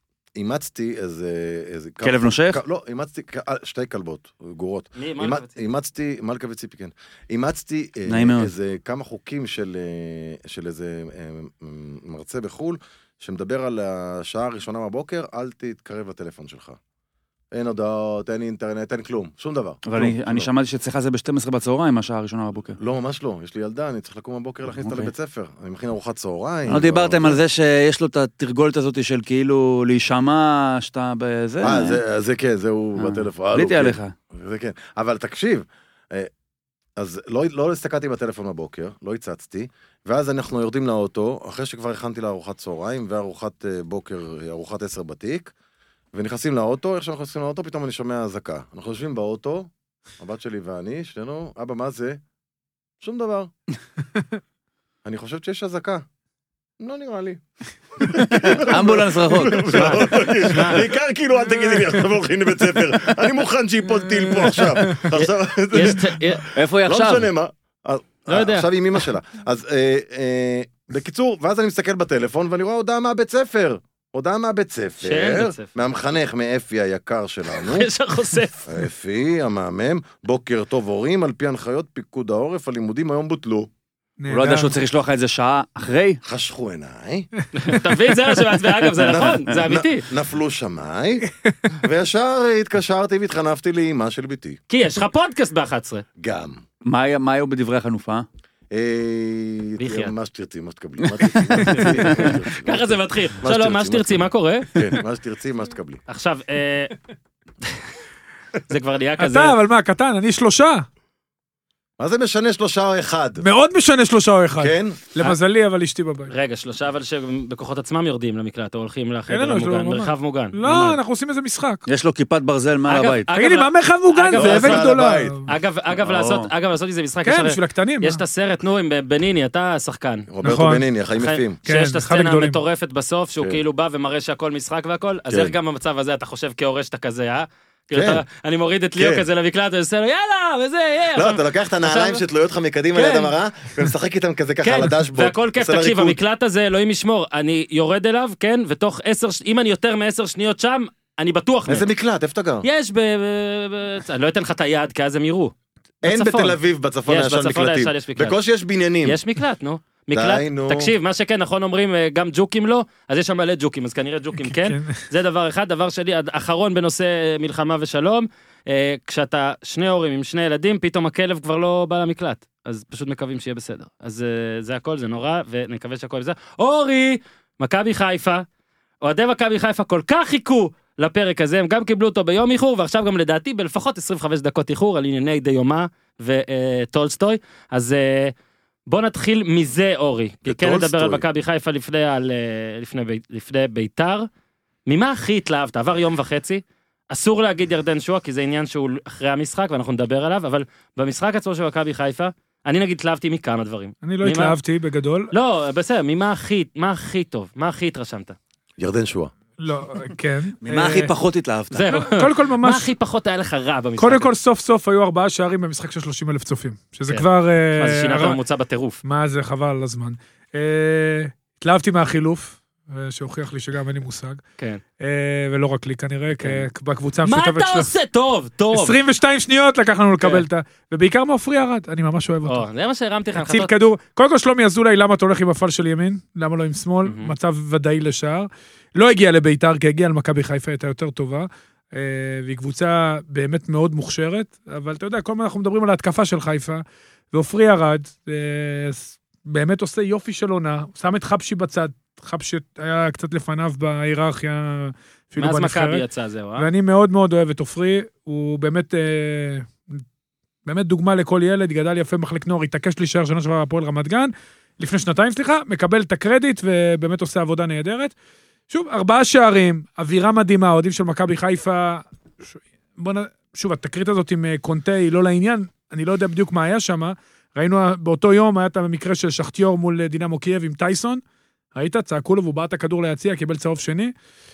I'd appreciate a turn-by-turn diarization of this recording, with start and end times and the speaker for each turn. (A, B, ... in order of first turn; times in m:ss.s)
0:00.3-0:16.8 A
0:02.0-0:02.6 B
0:05.0-0:05.6 C
0:08.1-0:08.5 B
0:17.5-0:20.5 A
0:19.8-0:22.8 B
0:22.8-0:27.4 A
0:24.7-0:25.1 B
0:26.7-0:32.0 B
0:31.6-0:36.3 A
0:33.0-0:34.1 B
0:37.0-0:45.5 A
0:46.1-0:52.2 A
0:53.0-0:53.5 A
0:55.0-0:56.0 A
0:56.8-0:57.4 A
0:58.0-1:17.9 A
0:58.1-1:00.2 B
0:59.6-1:00.9 C
1:05.2-1:06.4 C
1:06.5-1:07.3 B
1:08.3-1:08.7 C
1:15.0-1:15.7 C
1:17.5-1:18.8 C
1:18.6-1:23.7 A
1:24.2-1:24.7 D
1:24.3-1:26.2 B
1:26.2-1:27.3 A
1:27.5-1:30.1 C
1:29.0-1:31.3 A
1:31.8-1:34.6 A
1:34.7-1:36.0 C
1:36.2-1:36.6 A
1:36.8-1:38.2 B
1:38.7-1:46.0 A
1:39.8-1:40.1 C
1:41.4-1:42.3 B
1:41.6-1:44.8 C
1:46.1-1:46.9 C
1:48.7-1:49.6 C
1:49.2-1:50.8 D
1:52.0-1:53.4 A
1:53.4-1:56.3 D
1:54.6-1:55.0 A
1:56.3-2:01.0 C
1:59.3-2:01.8 D
2:01.8-2:03.3 B
2:02.9-2:04.9 C
2:03.3-2:05.4 D
2:04.3-2:05.4 A
2:05.4-2:10.3 C
2:06.0-2:06.5 B
2:07.2-2:08.2 D
2:10.3-2:11.6 A
2:10.4-2:10.8 D
2:11.2-2:22.2 C
2:11.6-2:12.6 D
2:15.3-2:15.5 A
2:17.9-2:18.2 A
2:19.0-2:19.2 A
2:21.1-2:26.2 A
2:22.9-2:23.3 C
2:24.6-2:31.9 C
2:31.7-2:32.6 A
2:32.6-2:35.5 C
2:36.0-2:39.2 A
2:36.0-2:38.4 C
2:39.0-2:58.4 C
2:40.1-2:40.9 A
2:44.4-2:44.9 D
2:59.0-3:08.3 C
3:08.9-3:14.3 C
3:10.4-3:11.2 A
3:14.9-3:24.6 C
3:24.0-3:25.3 D
3:25.3-3:28.4 C
3:28.8-3:29.3 A
3:29.6-3:31.1 D
3:30.6-3:31.9 B
3:31.7-3:34.3 C
3:31.9-3:32.9 D
3:34.0-3:38.4 D
3:37.1-3:39.0 C
3:39.0-3:44.4 D
3:45.0-3:47.9 D
3:46.4-3:46.7 C
3:47.2-3:49.0 C
3:48.7-3:52.6 D
3:50.2-3:50.4 C
3:52.4-3:53.7 C
3:53.3-4:16.0 D
3:57.0-3:57.3 C
4:15.4-4:16.7 C
4:16.6-4:19.8 D
4:20.6-4:28.1 D
4:28.7-4:41.2 D
4:41.7-4:44.1 D